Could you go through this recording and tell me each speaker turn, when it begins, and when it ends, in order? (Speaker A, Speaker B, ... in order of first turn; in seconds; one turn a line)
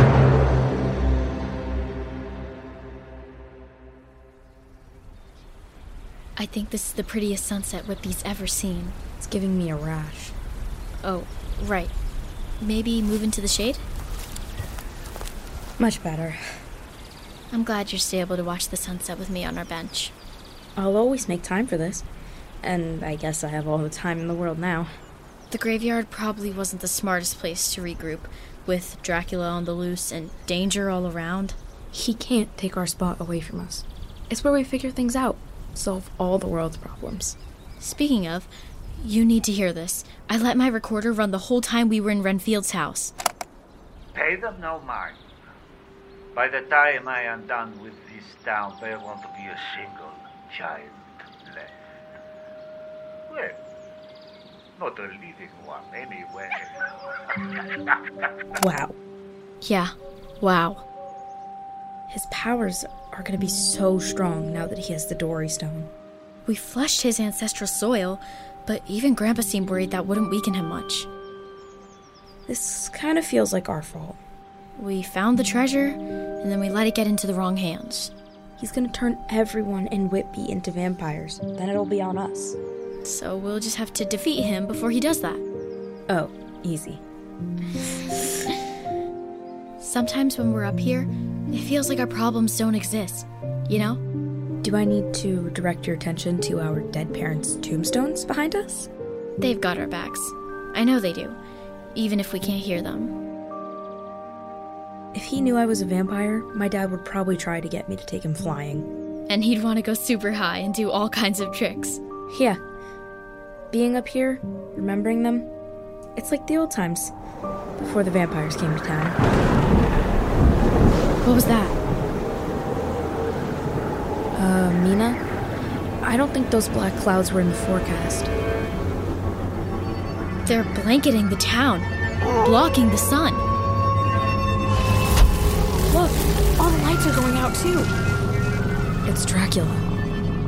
Speaker A: 6.4-8.9
Speaker B: 9.2-10.3
Speaker A: 11.0-11.9
Speaker A: 12.6-13.8
Speaker B: 15.8-16.4
Speaker A: 17.5-20.1
Speaker B: 20.8-22.1
Speaker B: 22.6-24.9
Speaker A: 25.5-31.6
Speaker B: 31.9-37.4
Speaker A: 37.8-43.1
Speaker C: 44.1-45.2
Speaker C: 46.3-51.8
Speaker C: 53.3-53.6
Speaker C: 54.8-56.7
Speaker C: 57.3-57.8
Speaker B: 58.6-58.9
Speaker A: 59.6-60.8
Speaker B: 62.1-65.9
Speaker A: 66.5-71.1
Speaker B: 72.5-74.2
Speaker A: 74.8-78.1
Speaker B: 78.6-82.6
Speaker A: 83.0-85.4
Speaker B: 86.1-87.0
Speaker A: 89.8-94.0
Speaker B: 94.6-98.9
Speaker A: 99.4-101.4
Speaker A: 101.9-103.2
Speaker B: 105.1-108.9
Speaker A: 109.3-112.0
Speaker B: 112.3-112.6
Speaker B: 113.7-115.5
Speaker B: 116.2-117.1
Speaker B: 117.8-119.2
Speaker A: 121.2-121.8
Speaker B: 124.3-125.2
Speaker B: 126.0-128.3
Speaker A: 130.4-133.4
Speaker B: 135.9-137.9
Speaker B: 139.1-139.8